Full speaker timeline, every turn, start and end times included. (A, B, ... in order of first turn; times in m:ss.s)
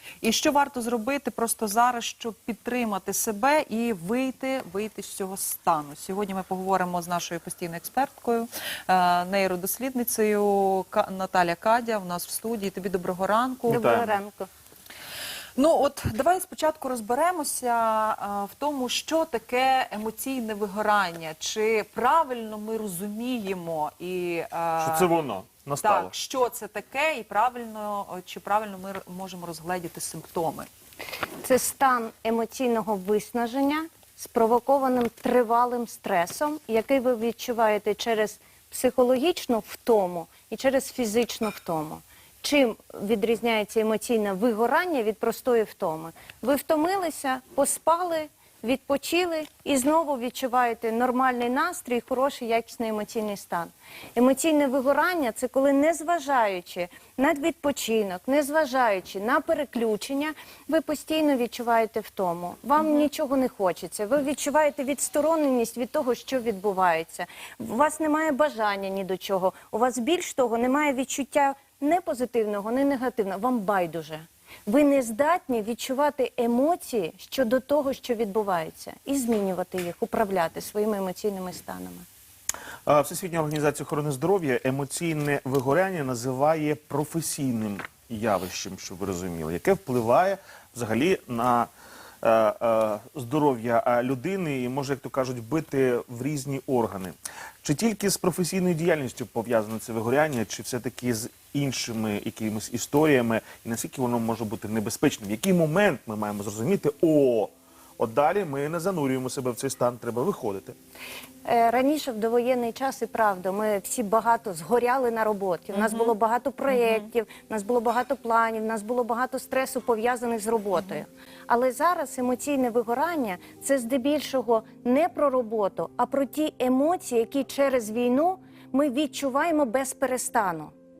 0:00.2-0:13.9 A
0:13.7-0:14.1 B
0:13.7-0:14.5 C
0:15.6-0:25.1 A
0:24.8-0:26.1 B
0:25.8-0:30.7 A
0:31.4-1:22.0 C
1:02.8-1:03.0 A
1:22.8-1:31.7 B
1:32.2-1:50.8 B
1:51.4-2:10.7 C
1:55.7-1:56.1 A
1:56.7-1:57.1 A
2:00.7-2:01.0 A